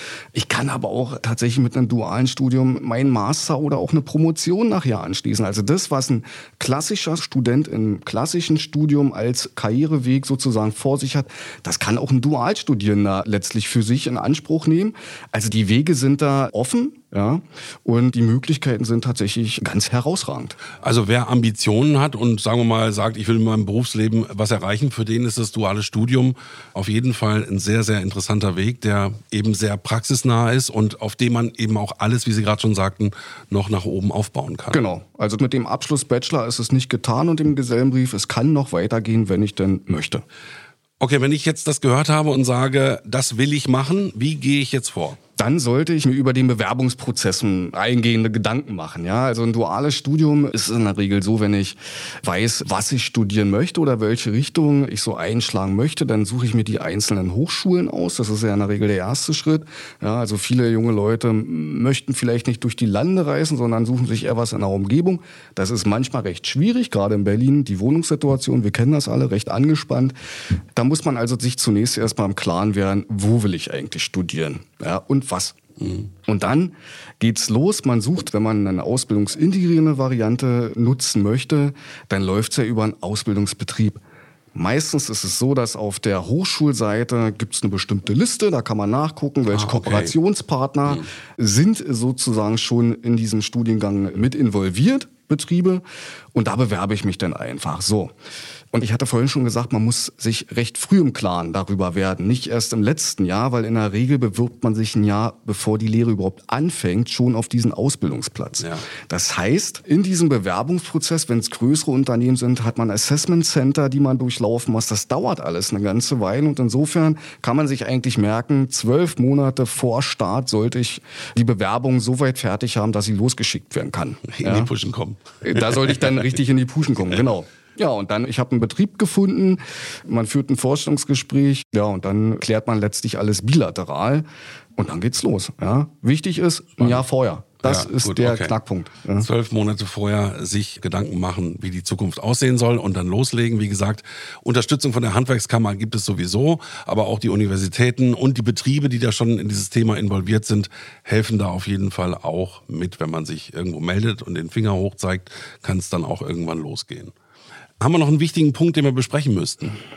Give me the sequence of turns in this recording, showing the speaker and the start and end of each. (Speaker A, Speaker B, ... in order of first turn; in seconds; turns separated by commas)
Speaker A: 0.3-20.6, Speaker B: 20.8-34.8, Speaker A: 34.7-40.2, Speaker B: 41.0-45.2, Speaker A: 45.4-70.1, Speaker A: 70.7-75.6, Speaker A: 76.2-84.0, Speaker A: 84.5-95.8, Speaker B: 89.5-90.1, Speaker A: 96.3-98.1, Speaker A: 98.7-124.7, Speaker B: 124.3-126.0, Speaker A: 125.4-134.2, Speaker A: 134.8-139.3, Speaker B: 137.6-138.5, Speaker B: 139.2-157.1, Speaker B: 157.8-159.8